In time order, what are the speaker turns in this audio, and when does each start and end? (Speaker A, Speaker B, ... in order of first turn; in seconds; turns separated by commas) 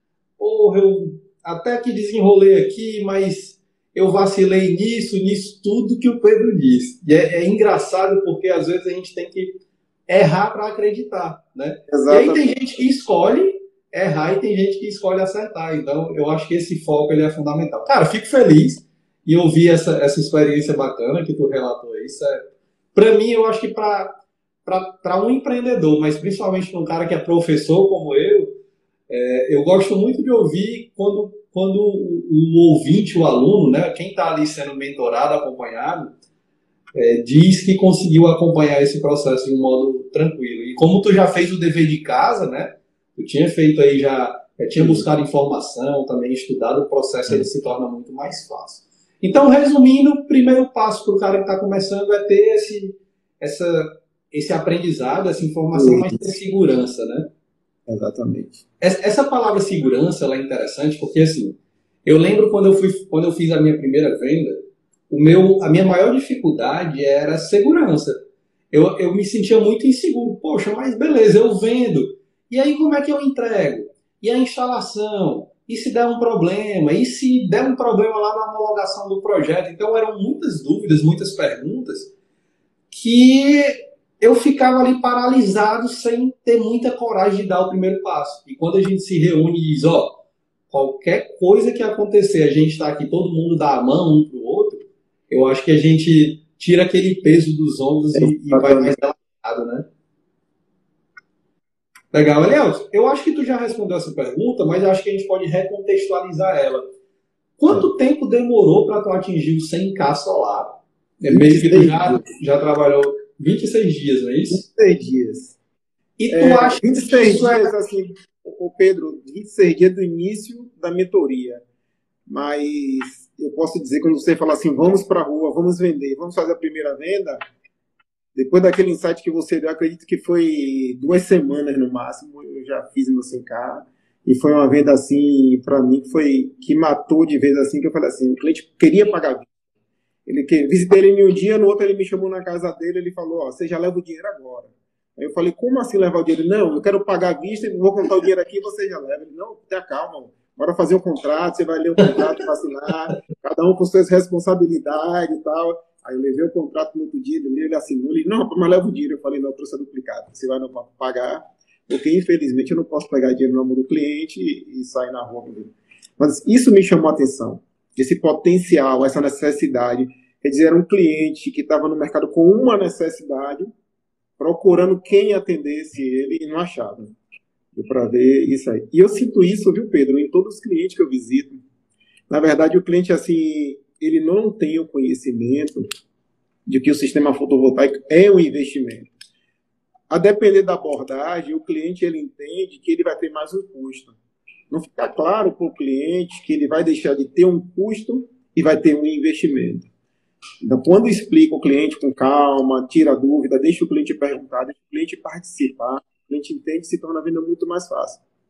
Speaker A: 0.4-24.1, Speaker B: 11.9-12.5, Speaker A: 24.6-28.6, Speaker A: 29.1-36.1, Speaker A: 36.9-57.3, Speaker B: 44.8-45.0, Speaker B: 55.7-56.3, Speaker B: 57.9-58.6, Speaker A: 58.8-68.2, Speaker A: 68.7-82.1, Speaker A: 82.9-90.2, Speaker A: 90.7-99.8, Speaker B: 98.1-99.0, Speaker A: 102.1-106.8, Speaker A: 107.6-114.6, Speaker B: 111.3-112.2, Speaker B: 114.5-115.6, Speaker A: 116.2-117.7, Speaker B: 116.3-121.6, Speaker B: 122.3-127.4, Speaker B: 128.3-139.5, Speaker B: 140.2-173.7, Speaker B: 174.4-177.1, Speaker B: 177.7-181.6, Speaker B: 182.3-185.8, Speaker B: 186.7-189.1, Speaker B: 190.1-194.1, Speaker B: 194.7-199.9, Speaker B: 200.6-208.2